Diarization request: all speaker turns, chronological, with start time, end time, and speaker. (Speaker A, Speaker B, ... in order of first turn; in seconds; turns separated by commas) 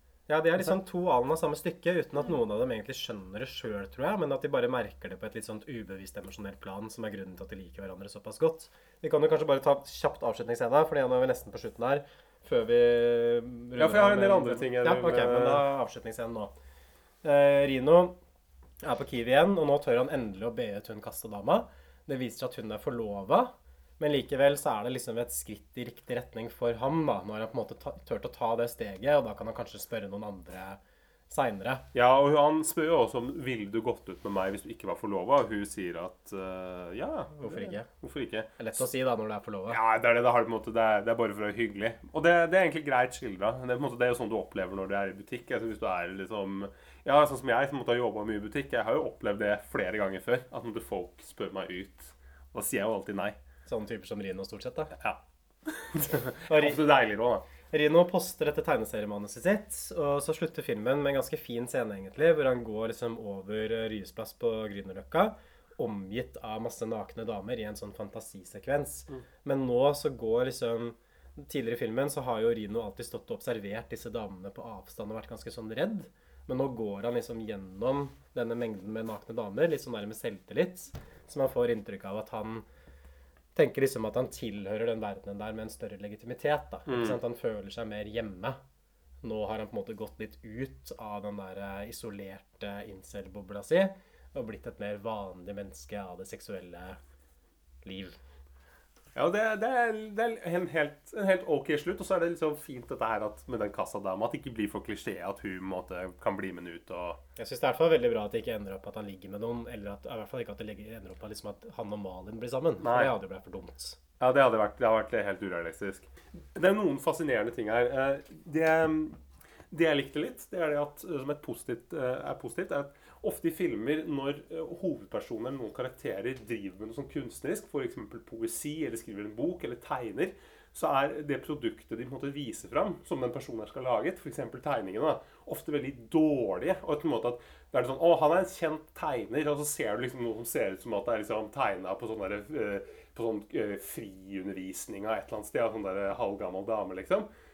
Speaker A: 0.3-16.5, Speaker B: 13.8-15.7, Speaker A: 17.2-18.1, Speaker A: 18.8-30.8, Speaker A: 31.3-31.8, Speaker B: 31.9-38.8, Speaker A: 37.4-37.9, Speaker A: 38.6-39.8, Speaker B: 39.7-53.4, Speaker A: 53.6-54.9, Speaker B: 55.0-57.5, Speaker A: 56.5-56.8, Speaker A: 57.7-82.6, Speaker A: 83.5-88.6, Speaker B: 86.9-87.2, Speaker A: 89.2-97.0, Speaker A: 97.8-98.2, Speaker B: 99.1-107.2, Speaker A: 107.4-114.0, Speaker B: 112.8-113.1, Speaker B: 114.2-119.2, Speaker B: 119.7-147.3